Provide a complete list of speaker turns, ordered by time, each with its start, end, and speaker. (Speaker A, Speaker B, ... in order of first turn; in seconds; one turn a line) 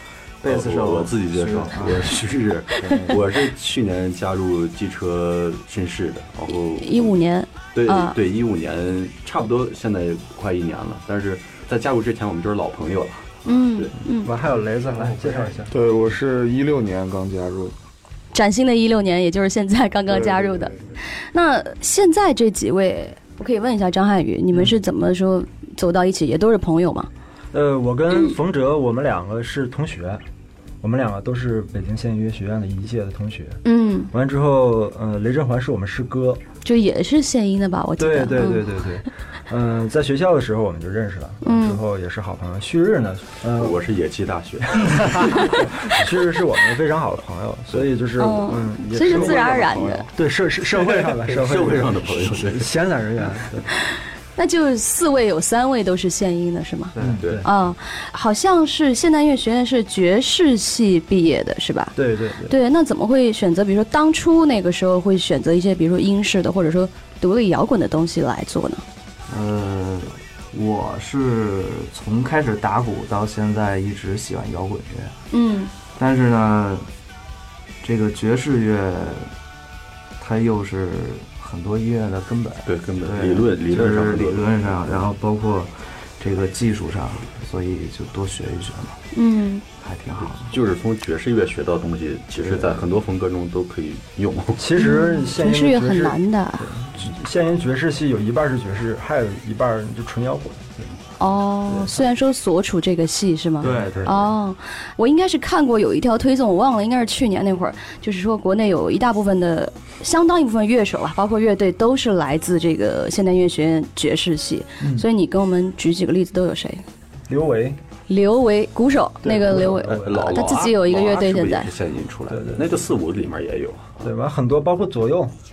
Speaker A: 0.4-2.2
Speaker B: 0.5-7.2
Speaker A: 2.8-3.2
Speaker C: 6.5-8.2
Speaker B: 7.7-13.9
Speaker C: 13.4-14.3
Speaker D: 14.1-15.8
Speaker A: 15.2-15.5
Speaker E: 15.7-17.8
Speaker C: 18.3-20.7
Speaker C: 21.3-27.1
Speaker D: 27.5-30.2
Speaker D: 30.8-33.6
Speaker C: 33.6-34.1
Speaker D: 34.1-36.4
Speaker C: 36.6-38.7
Speaker D: 38.0-43.8
Speaker C: 41.4-41.8
Speaker B: 43.5-45.9
Speaker D: 44.7-53.6
Speaker C: 48.2-50.1
Speaker B: 50.7-52.7
Speaker C: 54.4-62.0
Speaker A: 57.0-57.2
Speaker D: 57.0-57.5
Speaker D: 62.0-62.5
Speaker C: 62.5-68.8
Speaker A: 69.3-75.2
Speaker C: 75.3-75.7
Speaker A: 76.0-76.9
Speaker A: 77.8-79.3
Speaker A: 80.2-89.0
Speaker B: 82.7-85.0
Speaker C: 89.1-89.6
Speaker A: 89.8-90.5
Speaker B: 90.3-94.6
Speaker A: 92.4-92.8
Speaker D: 94.6-100.8
Speaker C: 94.8-96.7
Speaker C: 101.2-116.8
Speaker B: 103.6-104.0
Speaker A: 103.6-104.2
Speaker D: 114.8-115.1
Speaker D: 117.3-117.8
Speaker C: 118.1-121.7
Speaker D: 119.2-120.6
Speaker B: 119.5-124.0
Speaker D: 122.3-122.8
Speaker D: 124.0-125.3